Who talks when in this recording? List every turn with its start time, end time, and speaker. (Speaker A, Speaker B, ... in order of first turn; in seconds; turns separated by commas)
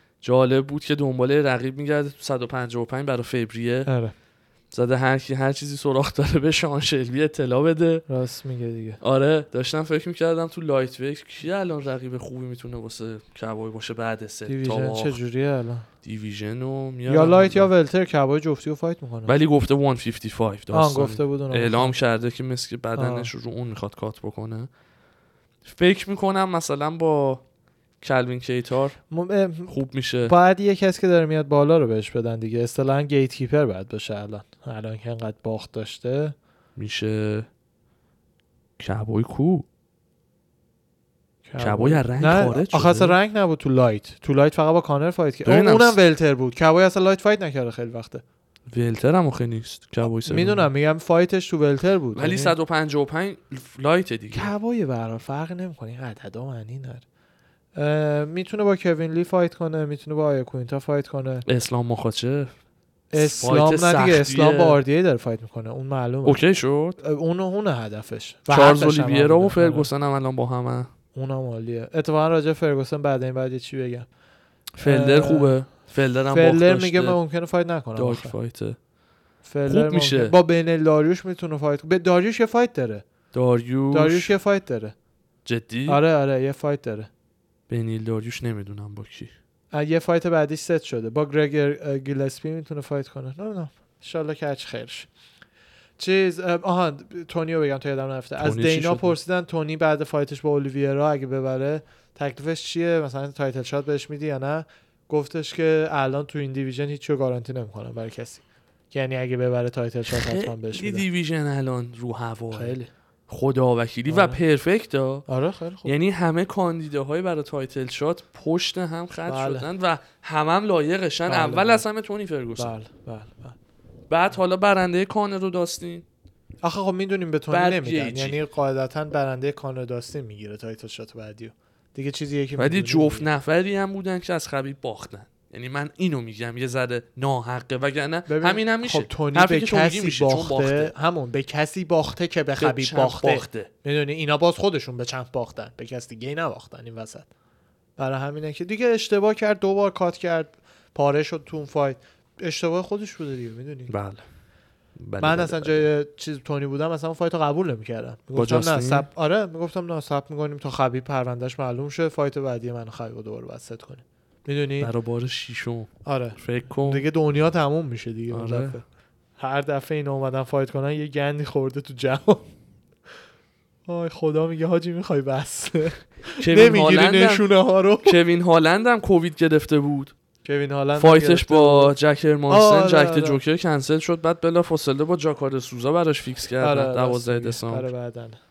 Speaker A: 0.2-3.9, Speaker B: 3.9-4.1, Speaker A: 4.7-8.0, Speaker B: 8.1-9.0, Speaker A: 9.0-15.2, Speaker B: 14.5-15.9, Speaker A: 16.0-17.7, Speaker B: 17.1-19.4, Speaker A: 19.3-24.7, Speaker B: 20.7-22.0, Speaker B: 23.0-23.3, Speaker A: 25.6-27.4, Speaker A: 28.0-29.0, Speaker B: 29.1-36.4, Speaker A: 29.7-30.3, Speaker A: 36.8-37.5, Speaker A: 38.8-39.7, Speaker B: 41.5-48.2, Speaker A: 41.6-43.2, Speaker A: 45.4-46.0, Speaker A: 48.7-50.7, Speaker B: 50.0-52.5, Speaker A: 52.1-54.5, Speaker B: 54.3-57.0, Speaker B: 57.8-61.5, Speaker A: 61.5-62.5, Speaker B: 63.1-66.5, Speaker A: 63.1-64.8, Speaker A: 66.2-67.0, Speaker B: 67.0-69.9, Speaker A: 68.5-70.9, Speaker B: 71.2-74.1, Speaker A: 74.8-77.2, Speaker B: 74.8-78.3, Speaker A: 78.0-78.8, Speaker B: 79.4-83.0, Speaker A: 79.7-80.3, Speaker A: 83.3-84.3, Speaker B: 83.9-85.0, Speaker A: 85.5-86.0, Speaker B: 85.9-87.1, Speaker A: 87.7-89.3, Speaker B: 89.7-95.1, Speaker B: 96.0-111.0, Speaker A: 98.4-99.2, Speaker A: 110.1-115.2, Speaker B: 112.5-112.9, Speaker B: 114.1-114.4, Speaker B: 115.3-116.0, Speaker A: 115.8-122.7, Speaker B: 119.3-119.7, Speaker B: 121.3-121.9, Speaker B: 122.6-123.6, Speaker A: 124.1-126.0, Speaker B: 126.6-133.3, Speaker A: 127.5-128.4, Speaker A: 132.6-140.9, Speaker B: 138.3-147.3, Speaker A: 142.6-143.7, Speaker B: 148.0-153.9, Speaker A: 153.9-154.2, Speaker A: 155.0-155.9, Speaker B: 155.2-164.9, Speaker A: 158.3-159.1, Speaker A: 164.8-167.1, Speaker B: 166.1-168.8, Speaker A: 168.3-168.8, Speaker B: 169.4-172.5, Speaker B: 173.9-178.2, Speaker A: 176.4-177.5, Speaker A: 178.0-180.1, Speaker B: 180.4-181.9, Speaker A: 181.0-187.9, Speaker B: 182.5-183.4, Speaker B: 186.6-188.4